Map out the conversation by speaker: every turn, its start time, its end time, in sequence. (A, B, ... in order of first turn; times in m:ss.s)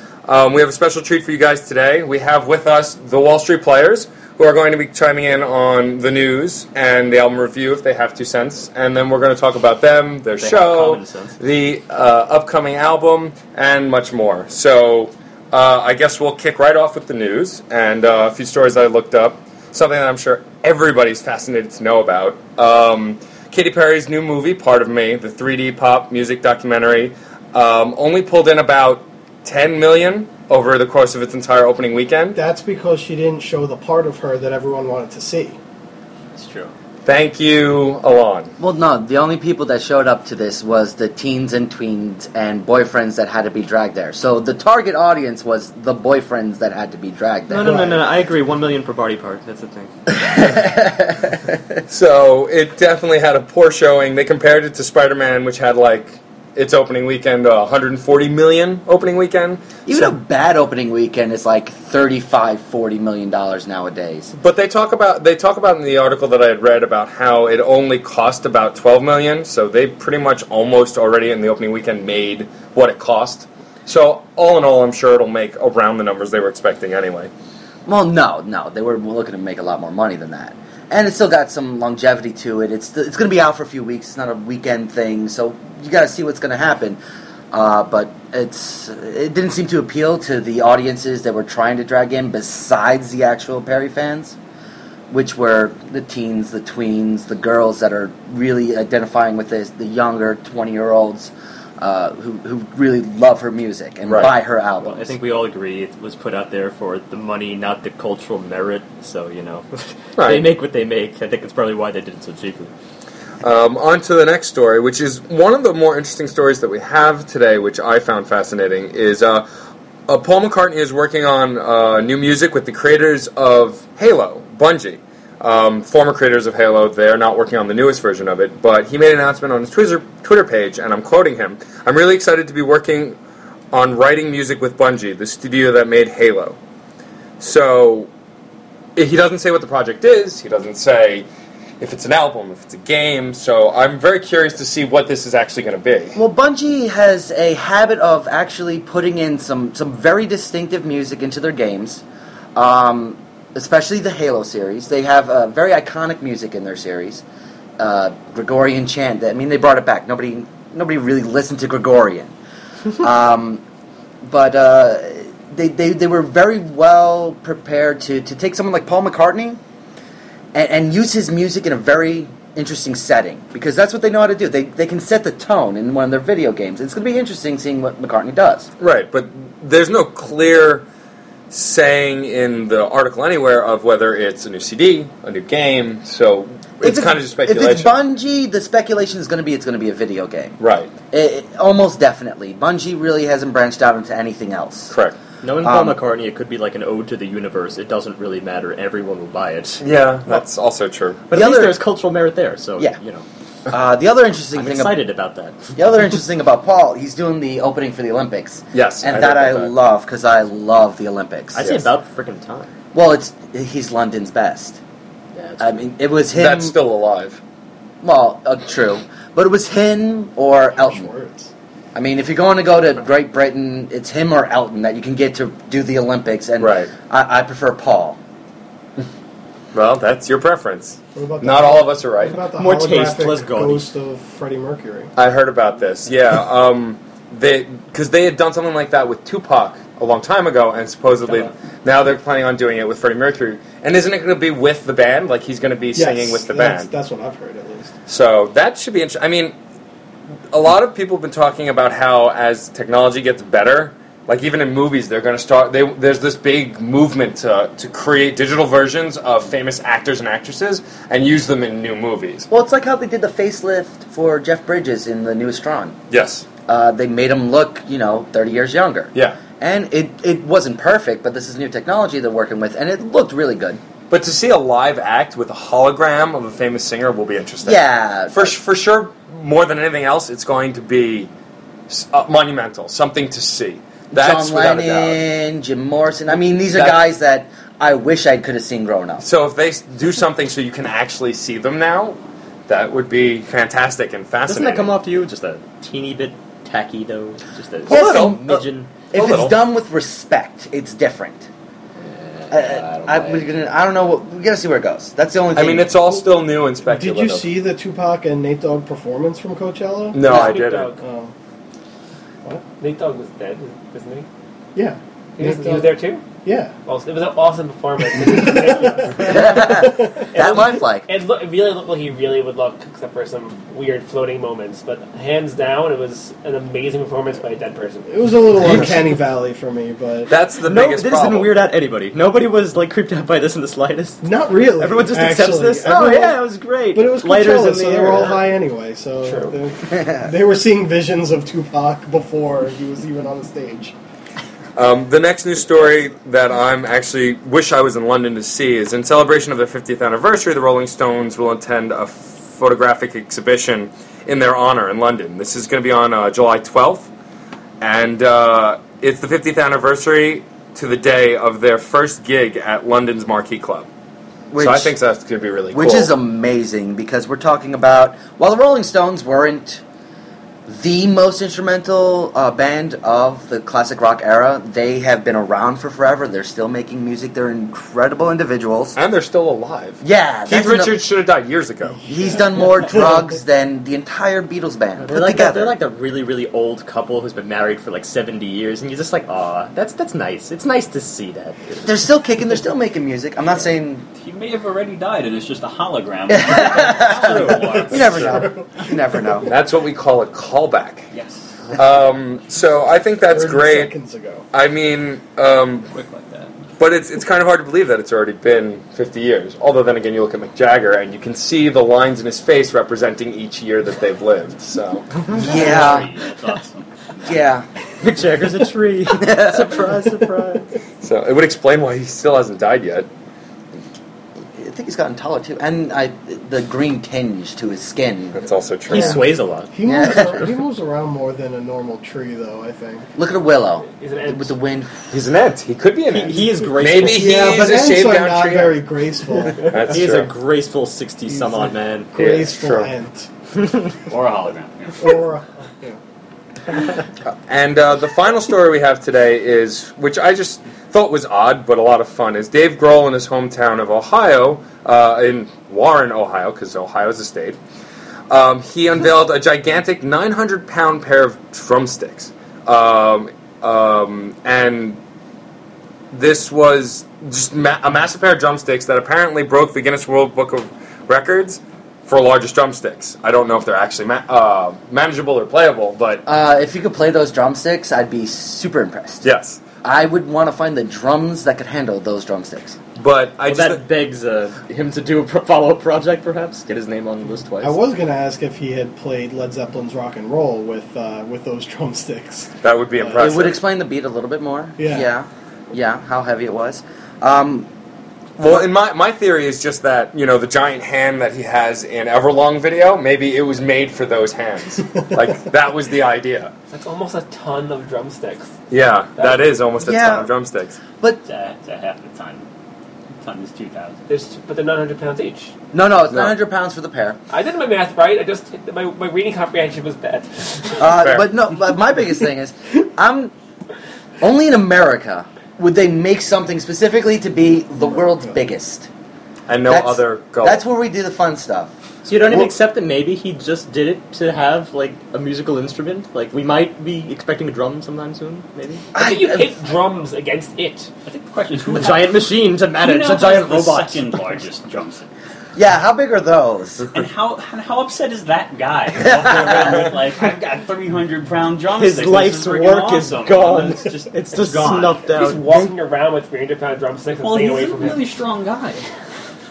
0:00.3-0:32.4 A
0:10.4-0:11.4 B
0:32.4-0:35.6 C
0:36.4-0:36.7 D
0:37.0-0:38.5 A
0:38.6-0:48.0 E
0:47.5-0:49.9 B
0:50.1-0:51.8 E
0:51.9-1:00.1 A
0:59.8-1:04.3 E
1:04.4-1:17.3 A
1:17.8-1:27.0 E
1:27.5-1:34.4 E
1:35.1-1:45.2 E
1:44.1-1:44.3 A
1:44.8-1:52.7 B
1:50.2-1:50.5 A
1:53.4-1:59.4 A
2:00.1-2:13.2 A
2:13.7-2:16.6 A
2:17.4-2:18.1 A
2:19.0-2:21.2 A
2:21.8-2:26.2 A
2:26.1-2:32.0 E
2:32.5-2:37.2 E
2:37.8-2:42.3 E
2:43.0-2:43.6 E
2:44.2-2:49.6 E
2:50.5-2:58.7 E
2:58.8-3:00.8 A
3:01.5-3:07.9 A
3:06.8-3:10.6 E
3:10.6-3:10.9 A
3:11.1-3:14.9 E
3:14.9-3:15.2 A
3:15.4-3:19.8 B
3:15.6-3:16.0 E
3:19.8-3:21.2 A
3:21.3-3:23.2 B
3:21.3-3:21.8 E
3:23.7-3:24.9 E
3:24.5-3:25.7 B
3:25.8-3:31.7 E
3:28.7-3:29.7 A
3:31.5-3:32.7 B
3:32.9-3:34.8 E
3:35.4-3:35.7 B
3:35.6-3:36.8 E
3:36.3-3:37.4 A
3:38.0-3:41.1 E
3:40.7-3:41.5 C
3:41.9-3:48.2 E
3:46.6-3:46.9 A
3:49.7-3:52.4 A
3:51.2-3:55.1 C
3:52.5-3:53.9 B
3:55.2-4:06.9 A
4:06.0-4:07.9 C
4:08.1-4:09.5 A
4:10.5-4:22.5 A
4:22.5-4:26.0 E
4:26.1-4:26.4 A
4:26.7-4:33.8 E
4:29.1-4:29.4 A
4:34.1-4:41.3 A
4:37.6-4:38.6 E
4:41.9-4:45.2 A
4:44.1-4:49.2 E
4:46.7-4:47.0 A
4:49.2-4:54.9 A
4:54.4-4:58.9 B
4:57.9-4:58.4 A
4:57.9-5:01.5 E
4:59.1-4:59.6 A
5:02.0-5:03.5 B
5:02.5-5:06.0 E
5:05.6-5:07.6 A
5:06.8-5:11.3 C
5:10.1-5:10.9 A
5:10.2-5:11.0 F
5:12.8-5:14.3 F
5:14.8-5:15.9 C
5:15.4-5:16.2 F
5:16.4-5:16.7 C
5:16.8-5:28.2 F
5:18.3-5:20.1 C
5:19.2-5:21.1 E
5:28.1-5:30.3 C
5:28.6-5:28.9 A
5:30.3-5:31.5 A
5:30.6-5:38.4 B
5:34.2-5:36.4 C
5:36.9-5:43.9 C
5:39.2-5:39.6 F
5:40.0-5:40.3 E
5:44.8-5:57.1 A
5:57.8-6:03.9 A
6:04.5-6:04.9 E
6:04.6-6:06.1 A
6:05.7-6:09.8 E
6:10.7-6:19.0 E
6:18.9-6:22.0 A
6:20.0-6:21.0 E
6:22.0-6:23.1 C
6:22.0-6:25.7 E
6:25.0-6:32.0 B
6:31.8-6:34.0 E
6:34.2-6:38.4 D
6:36.3-6:39.5 E
6:37.3-6:38.4 A
6:37.8-6:39.3 C
6:39.4-6:41.1 A
6:41.1-6:41.5 D
6:41.7-6:44.0 A
6:43.3-6:44.4 C
6:44.5-6:45.9 A
6:45.9-6:46.6 D
6:46.8-6:55.2 A
6:55.2-6:57.4 D
6:55.3-6:56.1 E
6:57.2-6:57.6 E
6:58.0-7:00.7 B
6:59.2-7:00.2 E
7:01.0-7:03.1 A
7:04.5-7:09.2 E
7:08.3-7:09.2 A
7:08.9-7:09.7 B
7:09.7-7:13.1 C
7:09.8-7:10.4 E
7:13.2-7:15.1 E
7:13.8-7:14.5 F
7:15.1-7:18.8 A
7:16.1-7:17.2 B
7:17.1-7:19.8 C
7:19.4-7:20.3 A
7:19.8-7:22.1 B
7:21.3-7:23.3 C
7:22.1-7:22.9 A
7:24.0-7:25.2 D
7:25.0-7:26.0 C
7:27.4-7:37.6 A
7:38.3-7:45.0 A
7:46.1-7:56.2 A
7:56.2-7:59.3 E
7:59.2-7:59.6 A
7:59.8-8:02.8 E
8:03.0-8:03.8 A
8:03.4-8:07.8 B
8:07.6-8:13.2 C
8:12.6-8:13.6 A
8:13.2-8:17.7 E
8:14.8-8:15.1 C
8:18.4-8:26.5 A
8:18.4-8:18.7 E
8:26.7-8:28.5 F
8:28.7-8:30.8 A
8:29.2-8:29.6 F
8:29.8-8:30.3 E
8:31.2-8:32.4 D
8:33.2-8:34.0 D
8:34.1-8:35.5 F
8:35.7-8:37.2 E
8:37.3-8:40.9 F
8:40.8-8:43.3 E
8:41.0-8:41.3 A
8:44.2-8:48.9 E
8:49.5-8:50.6 A
8:49.6-8:52.5 E
8:52.0-8:58.8 B
8:58.9-9:00.9 F
8:58.9-8:59.5 E
9:01.0-9:02.2 D
9:01.7-9:04.2 B
9:02.8-9:05.1 D
9:05.6-9:06.9 E
9:06.9-9:15.0 D
9:11.7-9:15.4 B
9:15.1-9:18.0 F
9:17.2-9:18.8 D